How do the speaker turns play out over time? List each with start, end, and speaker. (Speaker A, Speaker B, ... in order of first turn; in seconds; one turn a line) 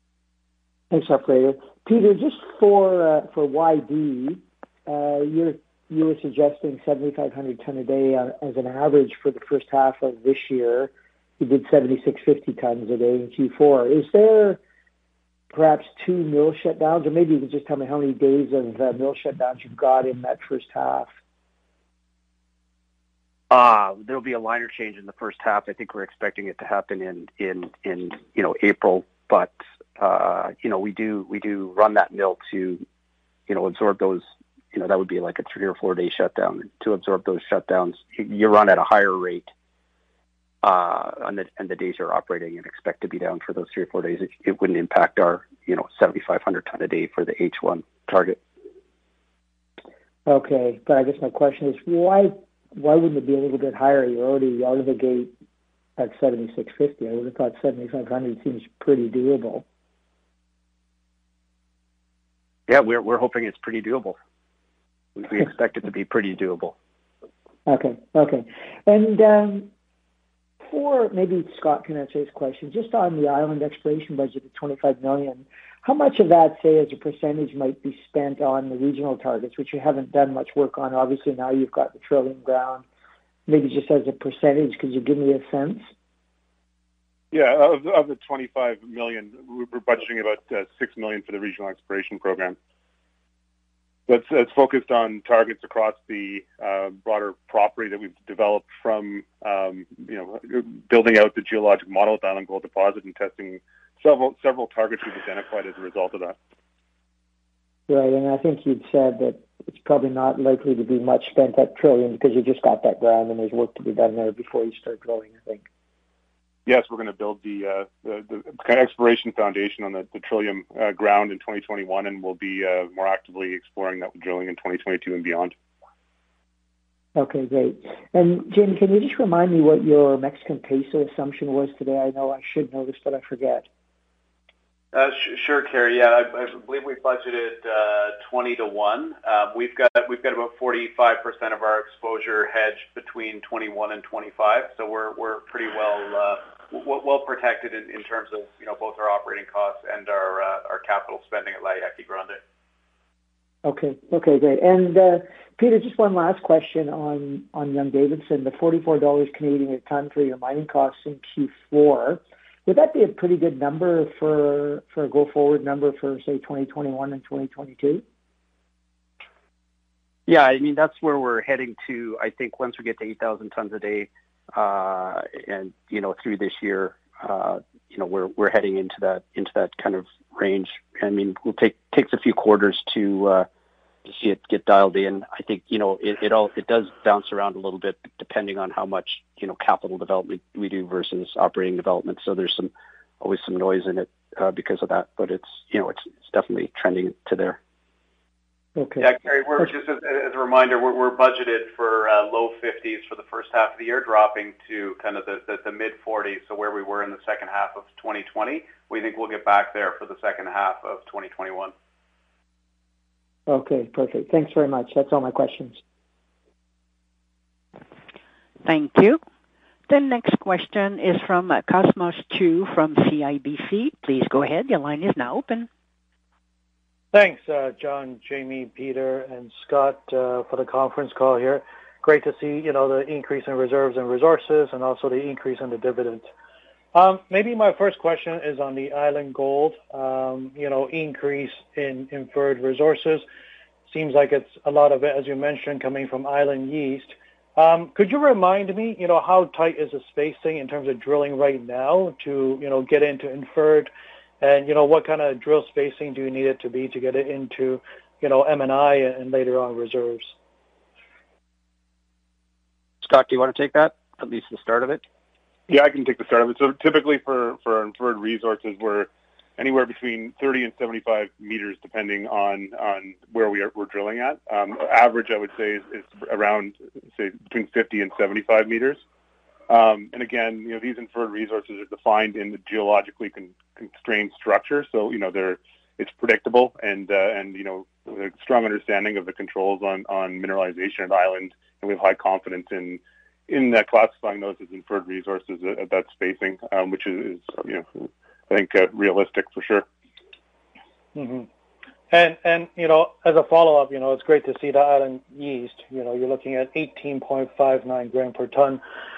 Speaker A: 0.9-14.6
Speaker A: 15.5-21.1
Speaker B: 23.5-32.8
Speaker B: 33.5-39.5
Speaker B: 40.6-48.4
Speaker A: 50.3-55.3
Speaker A: 56.0-59.6
Speaker B: 62.7-64.2
Speaker B: 65.2-66.8
Speaker A: 67.7-69.7
Speaker A: 70.7-82.8
Speaker A: 83.5-85.9
Speaker C: 87.3-92.6
Speaker C: 94.1-106.4
Speaker A: 107.9-115.7
Speaker C: 116.7-125.5
Speaker A: 127.2-133.7
Speaker D: 134.9-152.4
Speaker A: 153.6-168.0
Speaker B: 170.3-183.5
Speaker B: 184.0-197.6
Speaker A: 198.8-199.7
Speaker D: 199.0-211.7
Speaker A: 213.5-215.8
Speaker E: 218.7-219.2
Speaker E: 219.9-225.7
Speaker F: 227.1-236.3
Speaker F: 236.9-243.3
Speaker F: 243.9-260.4
Speaker B: 263.0-265.0
Speaker C: 265.7-279.0
Speaker C: 279.7-299.9
Speaker F: 301.1-301.5
Speaker F: 302.1-308.8